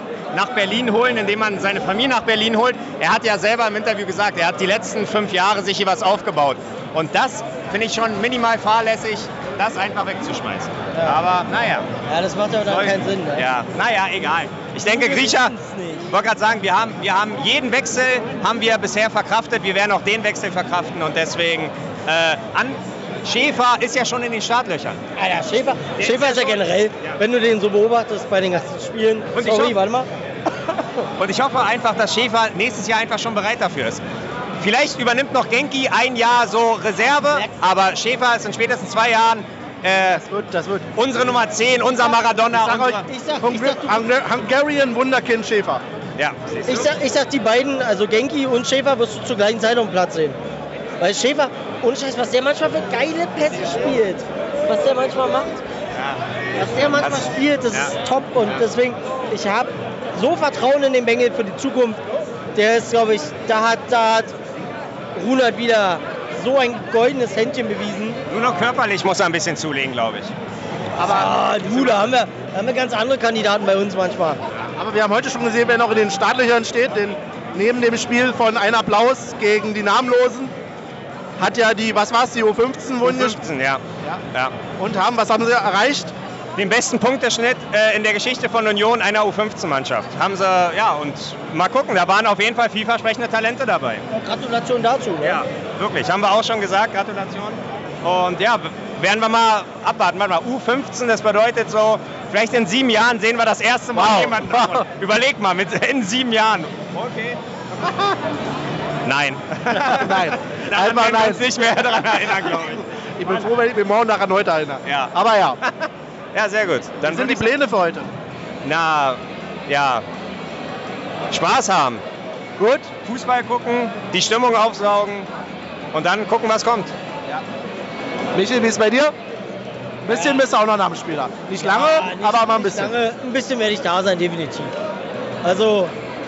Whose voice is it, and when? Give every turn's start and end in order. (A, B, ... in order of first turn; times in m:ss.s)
0:00.3-0:11.9 A
0:12.1-0:13.4 B
0:12.6-0:15.5 A
0:14.8-0:16.1 B
0:16.1-0:25.0 A
0:25.2-0:30.1 B
0:26.0-0:27.2 A
0:29.3-0:29.8 A
0:31.2-0:34.0 A
0:34.6-0:40.2 A
0:37.3-0:37.5 B
0:40.1-0:40.9 C
0:40.9-0:43.0 A
0:42.0-0:44.1 B
0:43.4-0:45.8 C
0:46.2-0:46.9 A
0:46.6-0:50.4 B
0:51.0-0:55.6 B
0:55.9-0:56.2 A
0:56.5-1:02.0 B
0:57.0-0:57.9 A
1:02.5-1:04.3 B
1:05.1-1:08.2 B
1:08.3-1:10.3 A
1:11.0-1:12.0 C
1:11.0-1:14.4 B
1:14.8-1:20.5 C
1:21.4-1:23.4 C
1:23.0-1:24.5 A
1:24.8-1:26.1 C
1:26.6-1:34.0 A
1:34.1-1:35.4 B
1:35.2-1:48.1 A
1:43.9-1:44.8 C
1:49.0-1:52.9 A
1:49.7-1:51.4 C
1:52.5-1:55.6 C
1:54.8-1:57.5 A
1:57.0-1:58.1 C
1:58.6-2:00.0 A
2:01.3-2:02.0 A
2:02.6-2:02.9 C
2:03.0-2:05.3 A
2:05.9-2:06.9 A
2:08.3-2:09.1 C
2:10.0-2:13.0 C
2:10.1-2:10.4 A
2:11.6-2:14.7 B
2:15.4-2:15.9 B